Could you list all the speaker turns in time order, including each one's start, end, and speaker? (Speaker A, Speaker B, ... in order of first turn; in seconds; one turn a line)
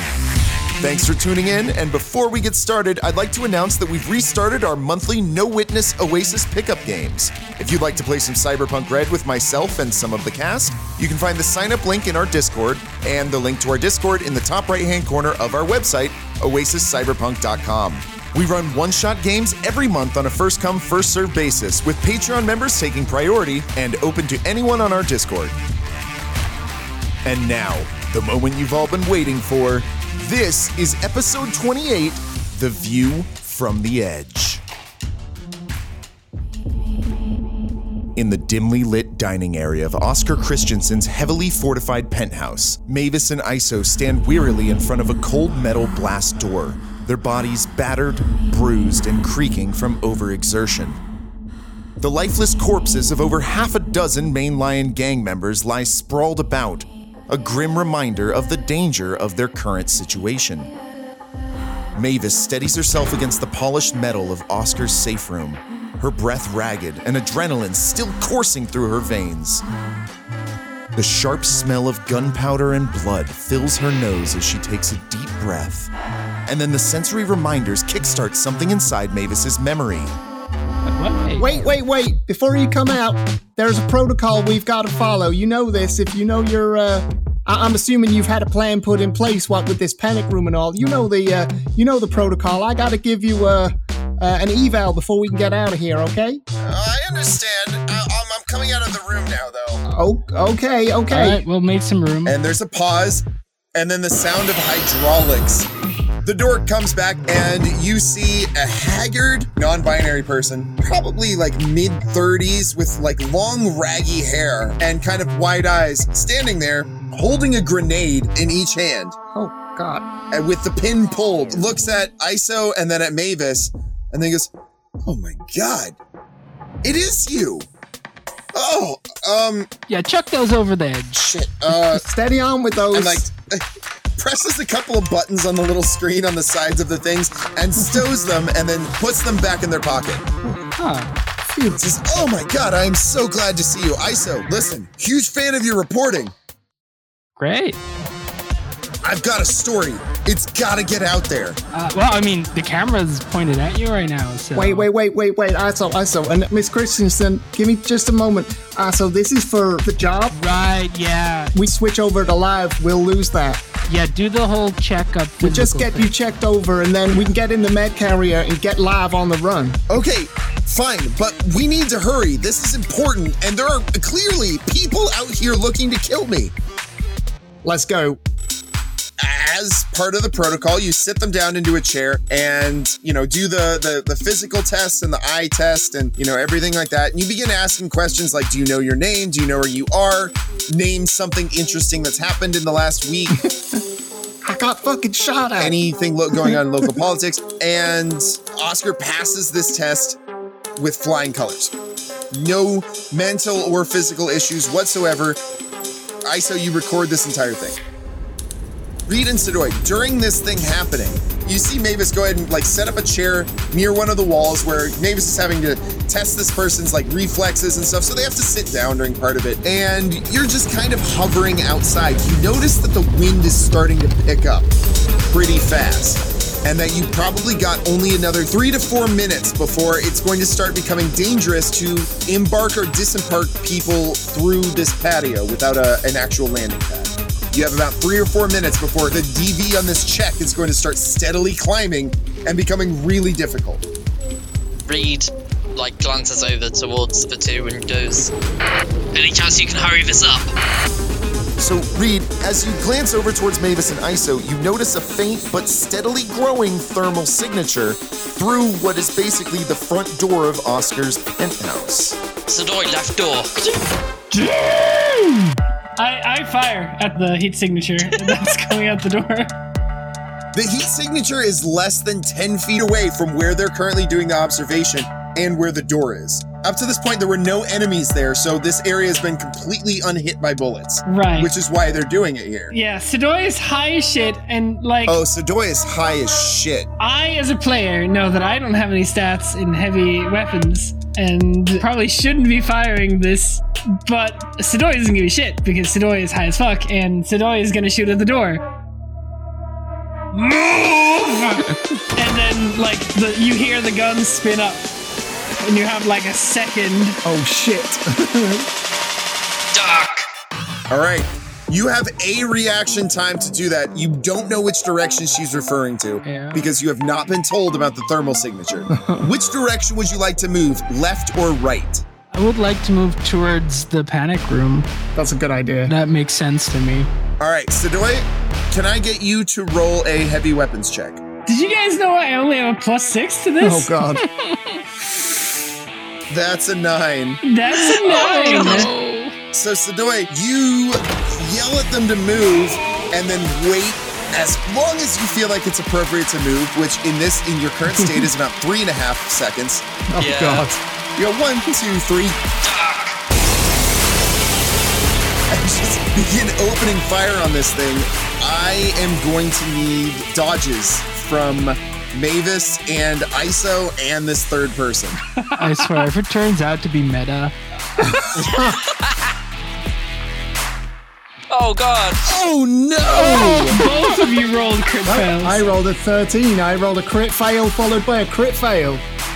Speaker A: 0.8-25.6
Speaker A: 27.2-34.6
Speaker A: 38.2-51.0
Speaker A: 52.0-60.7
Speaker A: 62.0-69.7
Speaker A: 71.0-75.9
Speaker A: 76.5-80.2
Speaker B: 80.9-81.7
Speaker C: 81.4-96.4
Speaker A: 96.6-99.8
Speaker C: 99.9-101.4
Speaker B: 101.1-102.4
Speaker A: 102.3-105.7
Speaker A: 106.2-119.2
Speaker C: 119.3-120.1
Speaker A: 120.3-124.5
Speaker A: 125.0-126.0
Speaker A: 126.8-127.7
Speaker A: 128.5-129.7
Speaker B: 129.9-131.3
Speaker A: 131.2-132.0
Speaker C: 131.9-133.3
Speaker A: 132.9-133.6
Speaker A: 134.2-140.3
Speaker B: 140.8-141.1
Speaker C: 141.4-142.3
Speaker A: 141.8-146.3
Speaker B: 147.4-147.8
Speaker A: 149.0-151.6
Speaker B: 151.7-154.9
Speaker C: 154.6-160.4
Speaker B: 160.3-161.6
Speaker C: 161.6-163.6
Speaker B: 163.9-166.1
Speaker C: 165.4-169.8
Speaker A: 169.9-176.5
Speaker C: 177.6-178.2
Speaker A: 179.2-193.4
Speaker C: 193.3-193.8
Speaker C: 194.4-195.8
Speaker A: 195.6-200.2
Speaker C: 196.3-196.6
Speaker A: 200.8-201.7
Speaker A: 202.3-205.4
Speaker A: 206.2-207.8
Speaker A: 209.1-224.7
Speaker A: 225.3-243.8
Speaker D: 244.9-248.3
Speaker D: 249.1-250.5
Speaker A: 251.6-262.2
Speaker D: 262.5-263.6
Speaker E: 263.6-269.5
Speaker A: 270.5-282.7
Speaker E: 281.1-281.5
Speaker E: 282.7-285.2
Speaker A: 285.1-286.9
Speaker E: 287.0-298.6
Speaker E: 300.3-301.6
Speaker E: 302.1-304.9
Speaker E: 305.6-307.2
Speaker C: 307.2-308.7
Speaker D: 309.7-310.3
Speaker A: 310.9-322.0
Speaker B: 316.2-316.7
Speaker C: 318.9-319.3
Speaker B: 322.3-324.9
Speaker C: 325.2-325.9
Speaker B: 325.9-327.1
Speaker A: 327.4-331.2
Speaker E: 331.5-333.9
Speaker C: 333.6-334.3
Speaker B: 334.2-334.8
Speaker A: 336.3-337.4
Speaker E: 337.4-338.9
Speaker B: 337.9-339.4
Speaker D: 338.0-338.9
Speaker A: 339.5-349.9
Speaker C: 347.9-348.3
Speaker C: 350.1-350.8
Speaker D: 350.2-350.7
Speaker A: 351.2-352.4
Speaker D: 352.6-353.2
Speaker A: 355.5-365.2
Speaker E: 365.4-366.1
Speaker B: 365.6-368.6
Speaker C: 368.0-368.8
Speaker D: 368.5-369.3
Speaker D: 371.5-372.3
Speaker A: 372.2-373.8
Speaker B: 373.4-374.1
Speaker E: 373.7-375.7
Speaker C: 375.1-379.0